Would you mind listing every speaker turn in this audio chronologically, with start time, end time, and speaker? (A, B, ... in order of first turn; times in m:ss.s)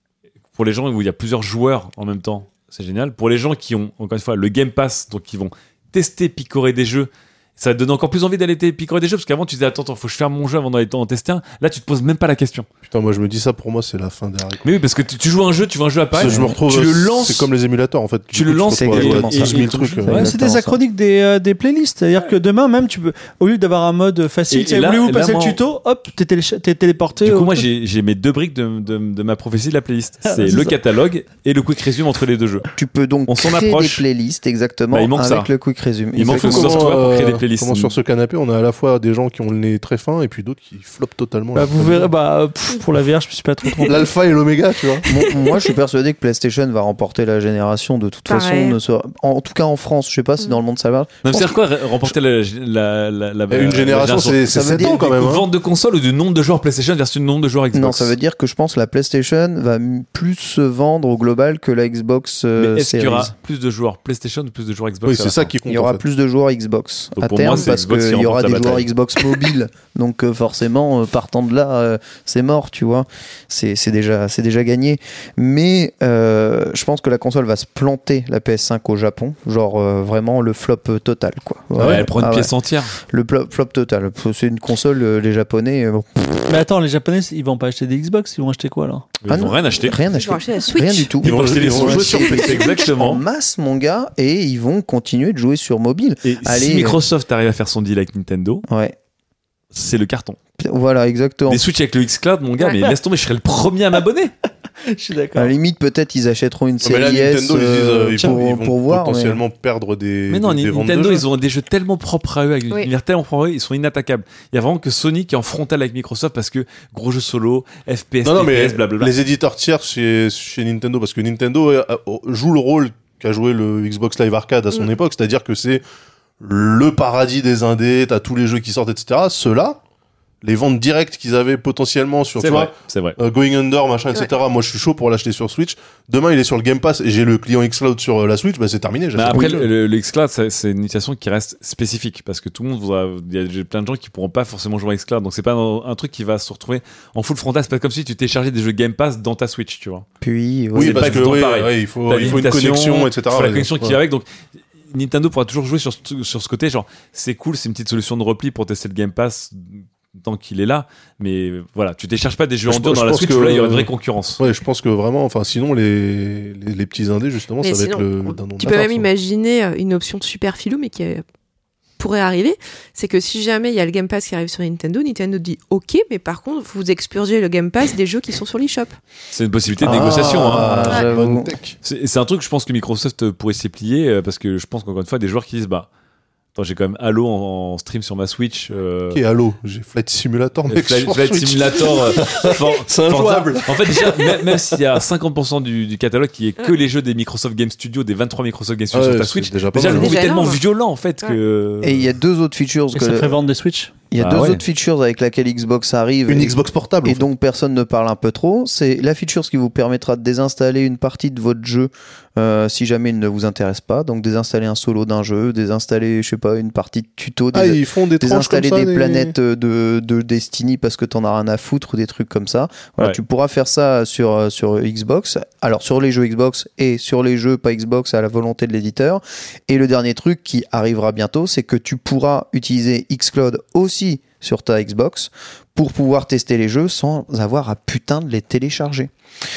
0:00.5-0:12.7 A
0:12.9-0:14.6 B
0:14.6-0:17.5 A
0:16.1-0:20.3 B
0:16.2-0:16.5 C
0:18.3-0:20.3 A
0:18.8-0:20.8 C
0:20.1-0:27.6 D
0:24.5-0:25.6 A
0:27.2-0:32.7 A
0:30.2-0:30.8 D
0:32.8-0:36.9 C
0:33.3-0:34.0 A
0:34.9-0:35.5 A
0:36.1-0:37.9 A
0:36.2-0:42.1 B
0:41.5-0:44.1 D
0:43.8-0:45.0 B
0:44.9-0:45.7 E
0:45.1-0:51.6 C
0:48.3-0:48.8 E
0:51.2-0:58.2 A
0:53.5-0:55.5 B
0:54.5-0:55.0 C
0:57.7-1:03.3 C
1:02.6-1:05.5 A
1:05.0-1:06.0 B
1:05.7-1:26.6 C
1:07.2-1:08.9 A
1:21.8-1:22.1 B
1:21.8-1:22.9 A
1:26.5-1:29.1 D
1:29.2-1:30.0 A
1:29.3-1:32.2 C
1:30.1-1:31.2 E
1:31.2-1:32.7 B
1:31.2-1:33.2 A
1:32.0-1:32.8 E
1:32.8-1:37.0 C
1:36.2-1:38.6 A
1:38.7-1:39.0 C
1:39.7-1:40.4 A
1:40.6-1:41.6 C
1:41.5-1:44.3 A
1:44.8-1:45.5 D
1:45.4-1:49.4 C
1:46.8-1:51.2 B
1:50.3-1:59.1 A
1:58.2-2:05.8 B
2:06.4-2:09.8 B
2:10.4-2:19.7 B
2:12.4-2:13.2 A
2:19.1-2:30.0 A
2:19.3-2:19.6 C
2:30.2-2:31.2 C
2:30.7-2:34.2 A
2:30.8-2:34.0 B
2:34.9-2:44.4 A
2:42.7-2:43.9 B
2:44.4-2:49.1 B
2:47.6-2:51.2 E
2:52.0-2:59.0 E
2:59.3-3:01.0 A
2:59.8-3:01.5 C
2:59.8-3:01.8 B
3:01.8-3:05.9 A
3:06.5-3:09.2 A
3:09.1-3:15.0 B
3:10.7-3:22.1 A
3:18.9-3:20.2 B
3:19.8-3:20.6 E
3:21.8-3:23.4 C
3:22.9-3:24.0 D
3:24.1-3:59.1 C
3:24.2-3:24.6 A
3:26.3-3:27.2 B
3:37.5-3:39.3 B